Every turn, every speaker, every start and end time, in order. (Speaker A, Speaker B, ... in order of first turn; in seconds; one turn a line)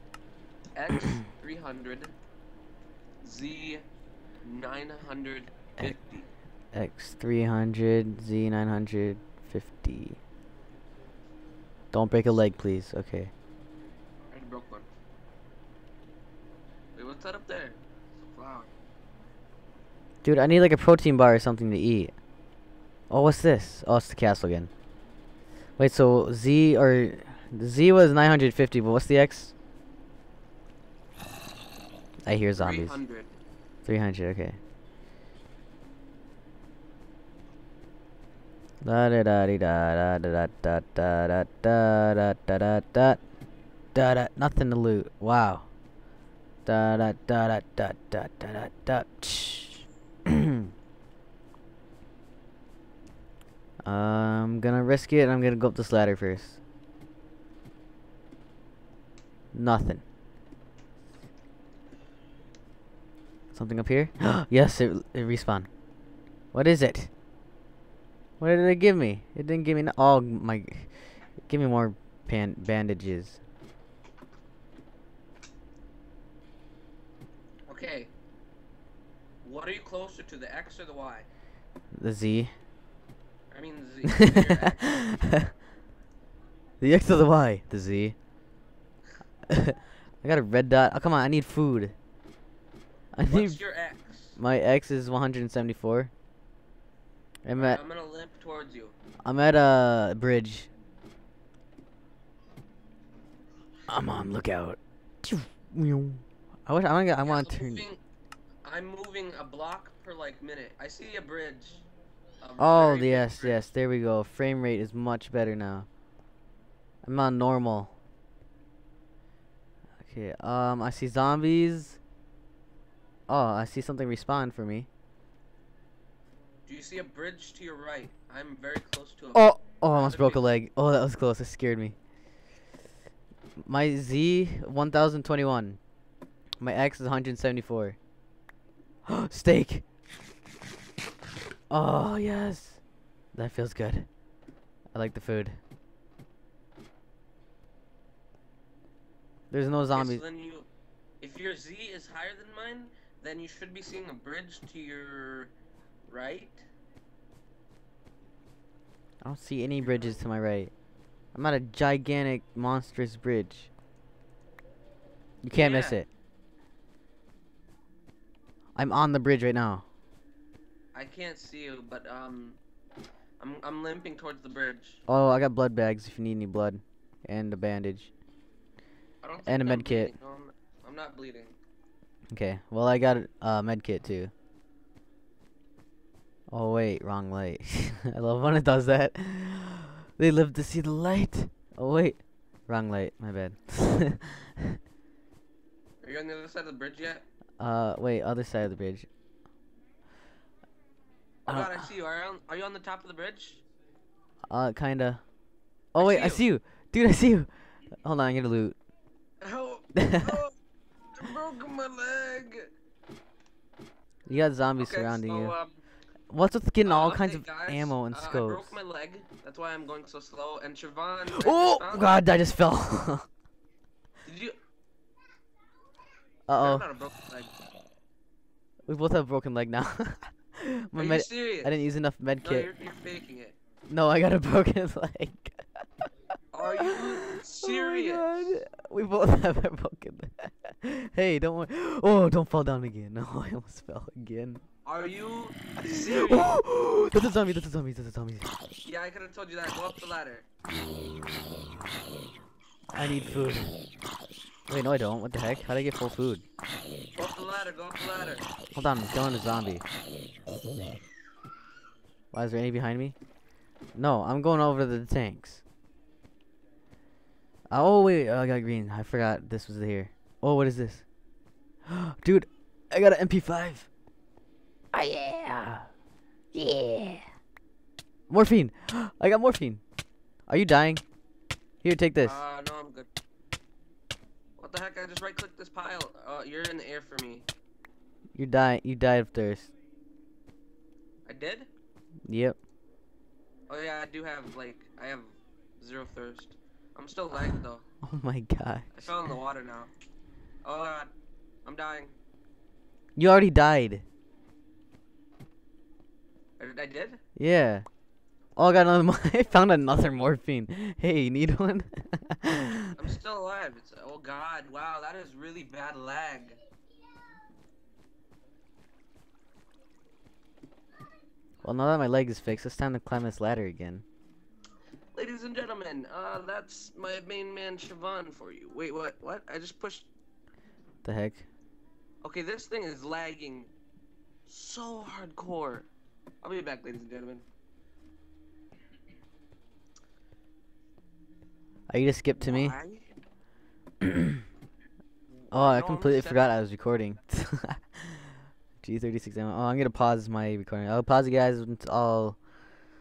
Speaker A: 0.8-2.1
Speaker A: 3.2-3.8
Speaker A: 4.4-6.3
Speaker B: 6.7-10.2
Speaker B: 11.9-13.3
Speaker A: 14.3-14.9
Speaker A: 17.0-18.7
Speaker B: 20.2-22.1
Speaker B: 23.1-24.7
Speaker B: 25.8-29.5
Speaker B: 32.3-33.0
Speaker A: 32.6-33.3
Speaker B: 33.9-34.6
Speaker B: 38.8-43.2
Speaker B: 43.9-45.7
Speaker B: 46.7-49.8
Speaker B: 53.9-56.6
Speaker B: 59.5-60.0
Speaker B: 63.5-65.7
Speaker B: 66.5-67.1
Speaker B: 68.4-70.9
Speaker B: 71.5-73.4
Speaker A: 77.7-78.1
Speaker A: 79.4-81.3
Speaker B: 82.0-82.5
Speaker A: 83.5-84.8
Speaker B: 84.1-85.5
Speaker B: 86.8-88.2
Speaker B: 89.5-92.0
Speaker B: 93.2-93.6
Speaker A: 93.3-94.4
Speaker B: 94.4-96.1
Speaker B: 97.5-97.8
Speaker A: 97.5-99.0
Speaker B: 99.2-100.7
Speaker B: 103.9-107.8
Speaker A: 107.2-108.0
Speaker A: 108.6-111.8
Speaker A: 112.4-113.7
Speaker B: 112.6-115.9
Speaker B: 117.0-118.0
Speaker B: 120.0-122.0
Speaker B: 123.3-124.9
Speaker A: 126.7-130.5
Speaker B: 129.3-131.9
Speaker B: 133.7-135.8
Speaker B: 136.6-138.0
Speaker B: 139.1-139.8
Speaker B: 141.7-142.8
Speaker B: 143.3-144.1
Speaker B: 144.9-145.6
Speaker B: 149.5-150.2
Speaker A: 149.9-150.7
Speaker A: 151.2-155.5
Speaker A: 156.1-156.7
Speaker B: 159.2-160.7
Speaker A: 159.8-160.2
Speaker B: 161.3-163.7
Speaker B: 165.4-166.1
Speaker A: 165.5-166.0
Speaker B: 168.8-169.8
Speaker A: 170.9-172.6
Speaker A: 173.4-175.0
Speaker B: 175.1-178.1
Speaker A: 179.2-181.6
Speaker B: 179.5-180.1
Speaker B: 182.3-184.3
Speaker B: 186.5-194.8
Speaker A: 196.0-197.2
Speaker B: 197.6-199.1
Speaker A: 201.5-203.6
Speaker B: 201.5-201.9
Speaker B: 204.5-205.2
Speaker B: 205.9-208.8
Speaker A: 206.0-206.5
Speaker A: 209.4-210.6
Speaker B: 210.0-210.3
Speaker A: 211.2-212.7
Speaker B: 214.3-215.6
Speaker A: 214.8-215.8
Speaker B: 216.3-218.8
Speaker A: 216.8-222.2
Speaker B: 221.3-223.3
Speaker A: 224.2-224.6
Speaker B: 226.5-226.9
Speaker A: 226.5-227.5
Speaker B: 228.9-232.7
Speaker A: 231.0-231.8
Speaker A: 232.4-233.6
Speaker B: 233.9-235.6
Speaker A: 236.5-238.7
Speaker B: 237.6-244.6
Speaker A: 244.8-246.6
Speaker B: 245.8-248.5
Speaker A: 248.8-250.5
Speaker B: 252.9-253.8
Speaker B: 254.7-256.4
Speaker A: 257.1-258.5
Speaker B: 258.7-259.8
Speaker B: 262.3-263.1
Speaker B: 263.9-265.6
Speaker B: 267.7-271.0
Speaker B: 271.9-273.9
Speaker B: 274.9-275.9
Speaker B: 276.5-277.2
Speaker B: 278.3-279.8
Speaker B: 280.5-281.0
Speaker B: 281.8-282.4
Speaker A: 282.2-283.1
Speaker A: 284.6-287.5
Speaker B: 288.4-289.7
Speaker A: 291.3-291.7
Speaker B: 292.3-292.6
Speaker A: 293.7-297.8
Speaker B: 298.0-299.1
Speaker A: 298.9-299.9
Speaker A: 300.6-301.1
Speaker A: 301.6-302.1
Speaker B: 303.2-304.1
Speaker A: 306.6-307.2
Speaker B: 307.4-307.9
Speaker B: 308.6-312.9
Speaker A: 313.0-316.6
Speaker B: 321.6-324.0
Speaker A: 325.1-330.1
Speaker B: 331.0-331.5
Speaker A: 332.2-333.7
Speaker A: 334.5-335.9
Speaker A: 336.4-337.4
Speaker B: 341.9-342.8
Speaker A: 342.4-343.1
Speaker B: 344.0-344.4
Speaker A: 345.5-346.5
Speaker B: 345.5-352.4